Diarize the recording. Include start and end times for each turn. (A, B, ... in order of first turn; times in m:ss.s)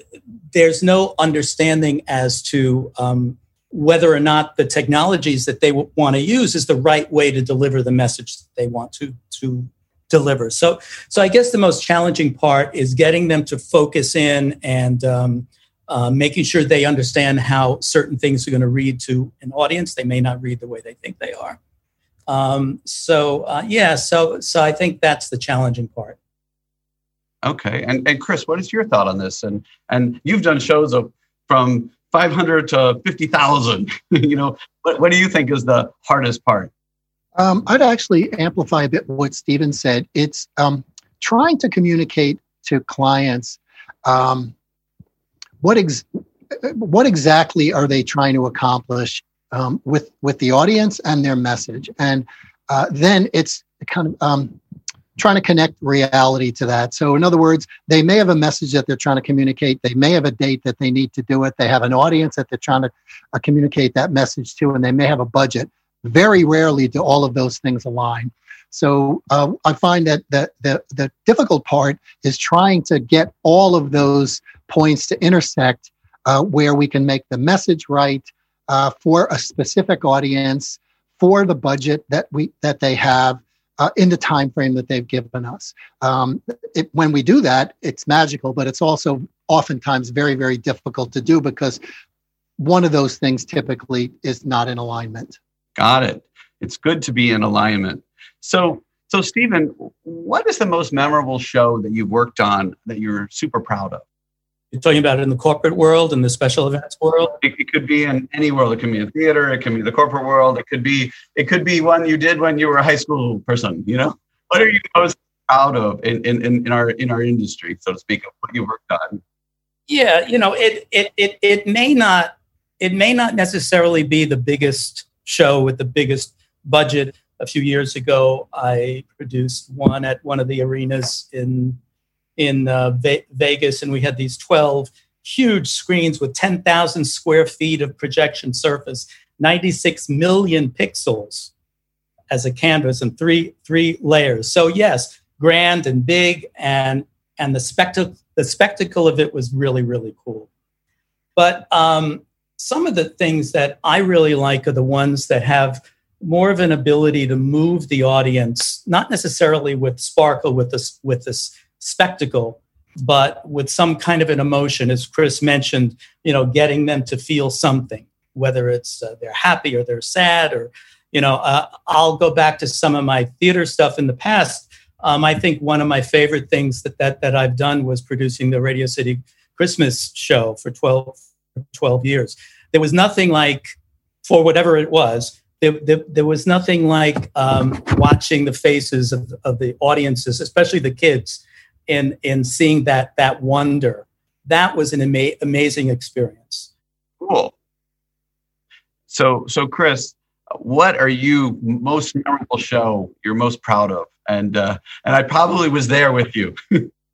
0:00.5-0:21.6 A
0:22.3-0:26.2 A
0:27.4-0:36.7 B
0:37.4-0:44.5 C
0:45.6-0:54.6 C
0:55.2-1:31.8 C
1:32.6-1:35.3 C
1:35.8-1:44.0 B
1:44.7-1:47.4 A
1:47.4-1:59.2 B
1:59.9-2:11.8 A
2:12.4-2:21.5 A
2:22.3-2:30.5 A
2:31.4-3:01.2 A
3:01.7-3:03.6 A
3:04.2-3:16.7 A
3:17.2-3:17.5 B
3:19.1-3:26.8 B